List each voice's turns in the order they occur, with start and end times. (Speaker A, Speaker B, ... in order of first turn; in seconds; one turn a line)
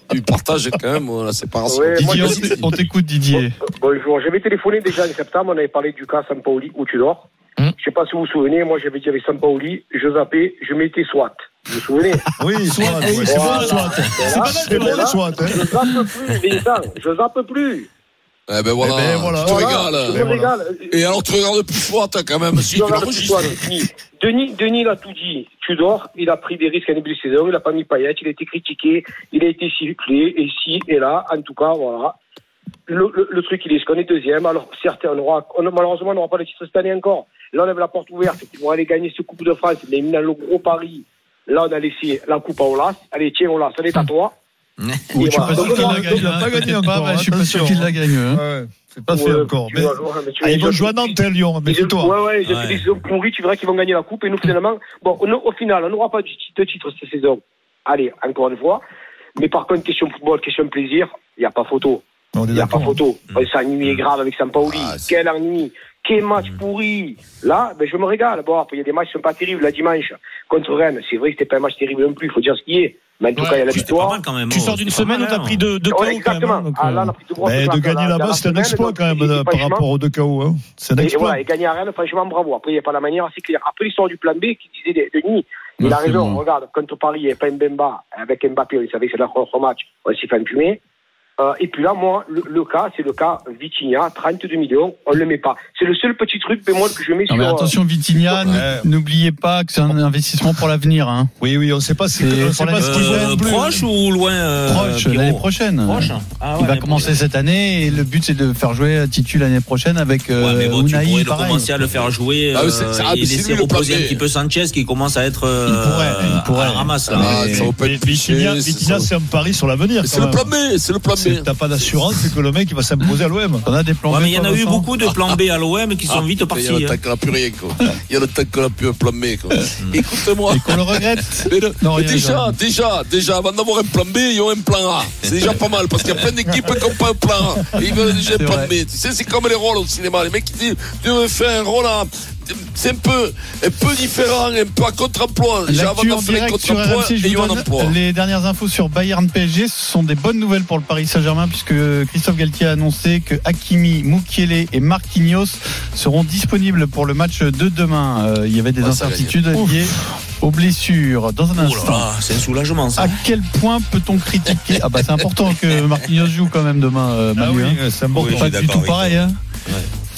Speaker A: 0.1-2.7
Speaker B: 1.7-2.6
Speaker C: 1.9-3.6
Speaker B: 3.4-7.3
Speaker B: 7.8-12.2
Speaker D: 12.4-15.6
Speaker E: 12.7-15.2
Speaker B: 13.2-17.9
Speaker A: 18.5-20.3
Speaker D: 18.8-20.5
Speaker B: 19.4-20.9
Speaker A: 20.9-23.6
Speaker B: 22.6-32.1
Speaker B: 32.9-44.3
Speaker F: 44.8-45.1
Speaker C: 45.1-48.4
Speaker B: 45.2-46.2
Speaker D: 45.4-52.1
Speaker B: 49.1-58.8
Speaker F: 52.5-52.8
Speaker B: 59.4-74.2
Speaker D: 62.3-63.0
Speaker F: 63.3-63.9
Speaker E: 73.4-73.7
Speaker F: 73.7-75.6
Speaker E: 74.5-77.2
Speaker B: 75.9-79.8
Speaker D: 77.4-81.4
Speaker B: 81.0-90.8
Speaker C: 85.8-86.4
Speaker B: 91.4-97.7
Speaker C: 97.3-101.3
Speaker D: 98.5-98.9
Speaker D: 101.4-103.8
Speaker C: 102.2-103.4
Speaker F: 102.8-107.2
Speaker C: 104.7-111.7
Speaker F: 110.4-117.6
Speaker A: 112.5-114.2
Speaker C: 115.7-117.4
Speaker A: 117.1-119.1
Speaker D: 117.2-120.5
Speaker A: 120.0-121.5
Speaker D: 121.2-123.6
Speaker C: 123.7-124.8
Speaker F: 124.1-127.0
Speaker A: 126.1-148.0
Speaker C: 130.5-132.6
Speaker C: 138.3-138.8
Speaker C: 145.7-162.1
Speaker A: 158.8-159.4
Speaker F: 161.6-163.2
Speaker C: 163.0-167.8
Speaker D: 167.4-168.5
Speaker F: 168.1-169.9
Speaker C: 168.4-169.4